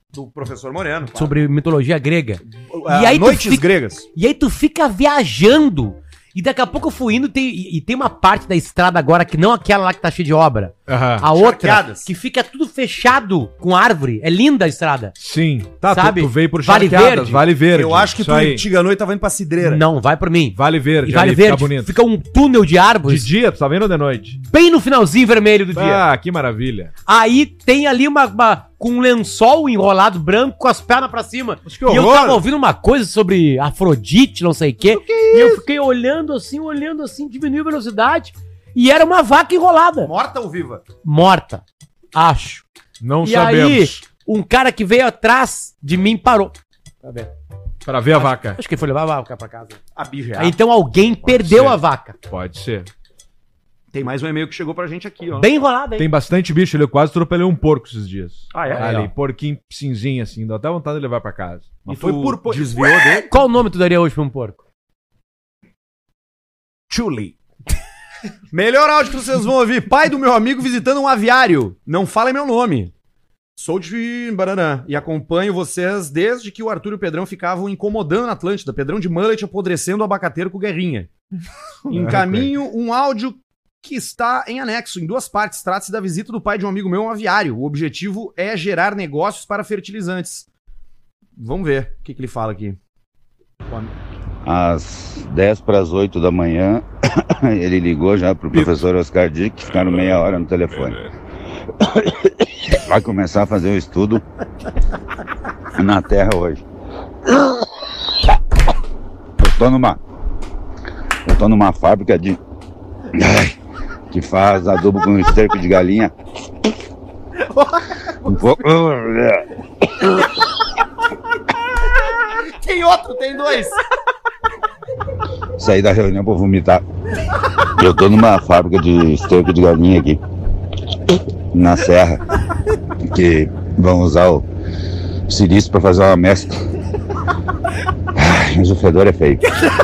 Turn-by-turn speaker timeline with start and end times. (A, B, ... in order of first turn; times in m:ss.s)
0:00.1-0:01.4 A
0:01.2-0:15.2 B
0:02.6-0:04.1 A
0:10.9-0:11.3 C
0:11.3-0:12.1 A
0:15.2-0:18.7 C
0:15.8-0:17.4 B
0:17.7-0:19.8 A
0:19.6-0:23.3 B
0:20.5-0:21.9 C
0:23.1-0:24.4 C
0:24.4-0:26.0 B
0:25.7-0:26.9 C
0:27.1-0:40.1 B
0:31.7-0:32.3 C
0:32.0-0:32.3 A
0:35.0-0:35.6 C
0:40.0-0:40.8 A
0:41.0-0:42.6 B
0:43.0-0:44.0 C
0:43.2-0:47.3 B
0:47.8-0:48.6 C
0:48.1-0:49.8 B
0:50.0-0:50.6 A
0:50.4-0:52.2 B
0:51.2-0:52.9 C
0:53.9-0:55.5 A
0:55.4-0:56.1 B
0:56.0-1:02.7 C
0:58.5-0:58.9 A
0:58.7-0:59.1 B
1:01.9-1:03.3 A
1:03.3-1:04.6 B
1:06.9-1:07.3 C
1:08.5-1:12.9 A
1:13.6-1:21.1 A
1:21.9-1:30.5 A
1:21.9-1:22.5 C
1:31.4-1:32.8 A
1:33.7-1:33.9 A
1:34.4-1:41.0 D
1:39.7-1:41.1 C
1:42.7-1:44.2 D
1:45.8-1:46.6 D
1:49.4-1:50.0 D
1:51.2-1:52.4 D
1:53.1-1:53.6 D
1:54.1-1:56.1 D
1:58.2-1:59.4 D
2:02.3-2:03.8 A
2:05.6-2:06.8 D
2:07.8-2:10.2 D
2:11.5-2:12.2 D
2:13.1-2:14.5 D
2:15.3-2:16.6 D
2:18.2-2:19.4 D